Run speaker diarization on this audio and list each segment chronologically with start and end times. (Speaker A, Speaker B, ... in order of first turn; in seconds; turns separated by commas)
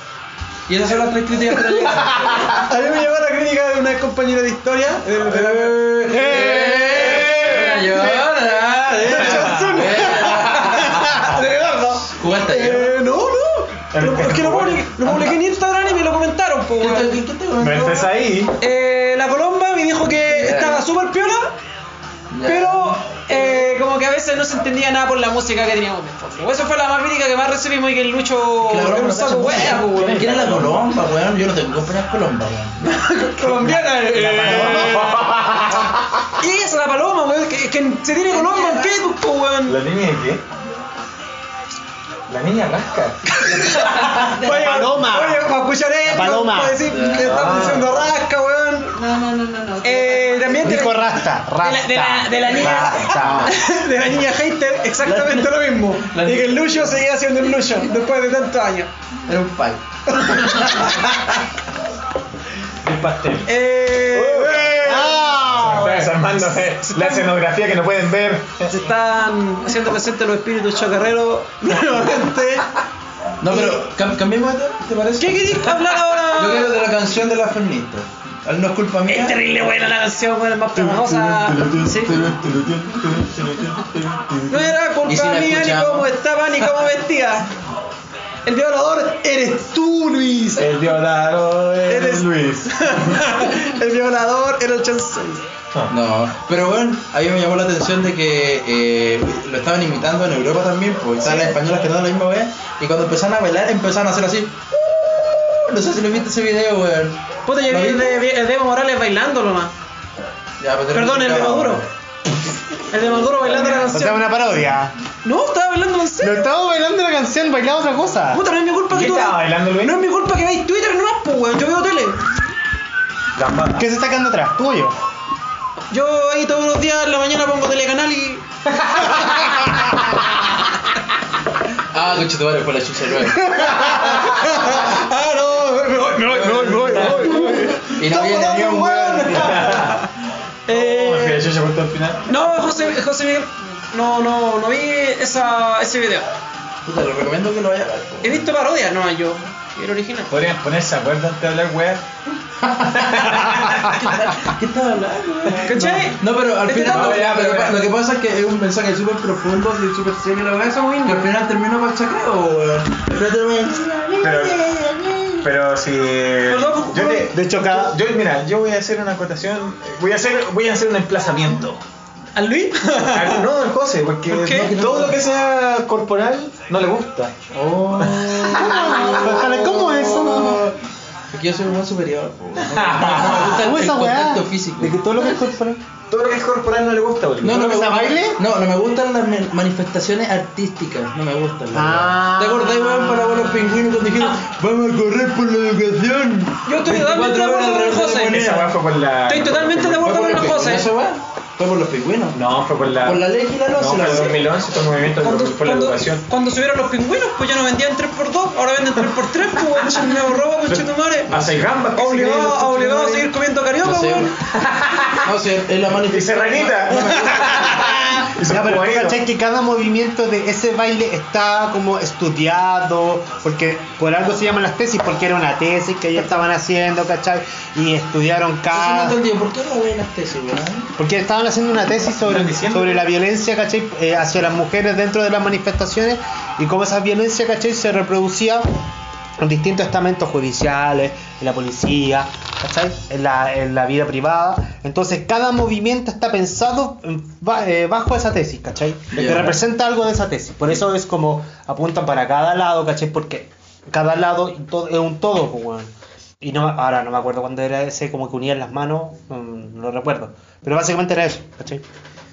Speaker A: 0.7-2.5, Speaker B: 1.7-8.3, Speaker A: 5.2-11.0, Speaker B: 9.0-17.1, Speaker C: 9.2-10.0, Speaker A: 12.1-13.0, Speaker C: 13.9-14.9, Speaker A: 15.0-15.4, Speaker A: 16.8-18.1, Speaker C: 17.6-18.6, Speaker B: 18.6-21.6, Speaker A: 20.2-20.8, Speaker A: 22.3-23.0, Speaker B: 22.4-30.3, Speaker A: 28.6-32.8, Speaker C: 29.5-31.0, Speaker B: 32.8-35.2, Speaker C: 33.4-36.1, Speaker D: 34.4-35.1, Speaker B: 36.4-39.8, Speaker E: 38.3-39.0, Speaker C: 39.7-40.4, Speaker C: 42.3-43.2, Speaker B: 43.3-49.0, Speaker D: 44.5-45.5, Speaker D: 46.1-46.9, Speaker A: 46.9-47.7, Speaker C: 47.2-48.0, Speaker E: 48.9-50.7, Speaker B: 49.8-58.9, Speaker D: 50.6-53.5, Speaker C: 52.6-53.5, Speaker A: 55.0-56.8, Speaker A: 59.3-59.8, Speaker B: 60.1-61.4, Speaker A: 60.3-60.8, Speaker C: 62.8-68.7, Speaker B: 63.5-65.2, Speaker D: 64.8-66.1, Speaker B: 65.7-66.1, Speaker B: 66.7-67.3, Speaker B: 68.7-72.7, Speaker A: 73.4-79.4, Speaker B: 73.5-73.8, Speaker B: 75.2-76.8, Speaker B: 79.1-82.2, Speaker C: 80.8-84.8, Speaker B: 84.5-87.5, Speaker A: 85.0-86.1, Speaker B: 88.5-90.7, Speaker C: 90.6-93.2, Speaker B: 91.9-95.4, Speaker A: 95.9-108.2, Speaker B: 101.2-101.6, Speaker B: 107.5-109.7, Speaker A: 110.6-111.9, Speaker B: 110.9-111.9, Speaker B: 112.9-114.3, Speaker C: 113.5-113.9, Speaker D: 113.8-114.9, Speaker B: 115.2-116.5, Speaker D: 116.2-118.4, Speaker B: 118.3-122.2, Speaker C: 118.9-120.1, Speaker C: 123.4-123.9, Speaker D: 123.8-125.0, Speaker B: 125.9-130.1, Speaker A: 131.9-133.5, Speaker B: 133.5-140.1, Speaker A: 136.2-139.8, Speaker C: 136.5-138.6, Speaker C: 139.1-140.1, Speaker B: 140.7-141.4, Speaker C: 140.7-142.3, Speaker B: 142.3-146.3, Speaker A: 146.8-148.5, Speaker B: 148.2-150.4, Speaker C: 150.3-152.1, Speaker A: 152.6-165.5, Speaker C: 152.9-154.1, Speaker B: 155.6-157.2, Speaker C: 156.8-157.9, Speaker B: 160.6-161.3, Speaker C: 164.2-164.7, Speaker C: 165.4-171.8, Speaker B: 166.5-167.3, Speaker D: 167.3-168.0, Speaker B: 172.3-173.4, Speaker C: 173.1-177.3, Speaker B: 174.3-174.7, Speaker A: 174.5-175.2, Speaker A: 177.5-180.8, Speaker C: 178.0-179.3, Speaker D: 178.5-180.7, Speaker A: 181.3-185.0, Speaker C: 182.7-183.6, Speaker D: 183.4-185.8, Speaker C: 186.1-188.0, Speaker A: 187.4-198.8, Speaker D: 187.6-188.4, Speaker D: 191.7-193.7, Speaker B: 196.7-198.4, Speaker C: 198.3-200.1, Speaker B: 199.3-200.9, Speaker A: 200.0-202.4, Speaker C: 202.3-206.3, Speaker A: 203.0-204.5, Speaker B: 204.0-204.3, Speaker B: 205.2-211.3, Speaker C: 210.7-213.3, Speaker A: 211.3-211.6, Speaker B: 211.9-214.3, Speaker A: 213.8-214.3, Speaker C: 214.5-215.2, Speaker A: 215.1-217.9, Speaker C: 216.0-219.2, Speaker B: 217.4-217.9, Speaker D: 218.4-229.2, Speaker A: 228.7-230.9, Speaker D: 231.0-238.7, Speaker C: 232.2-233.1, Speaker D: 239.4-255.9, Speaker A: 249.1-249.6, Speaker D: 256.4-261.8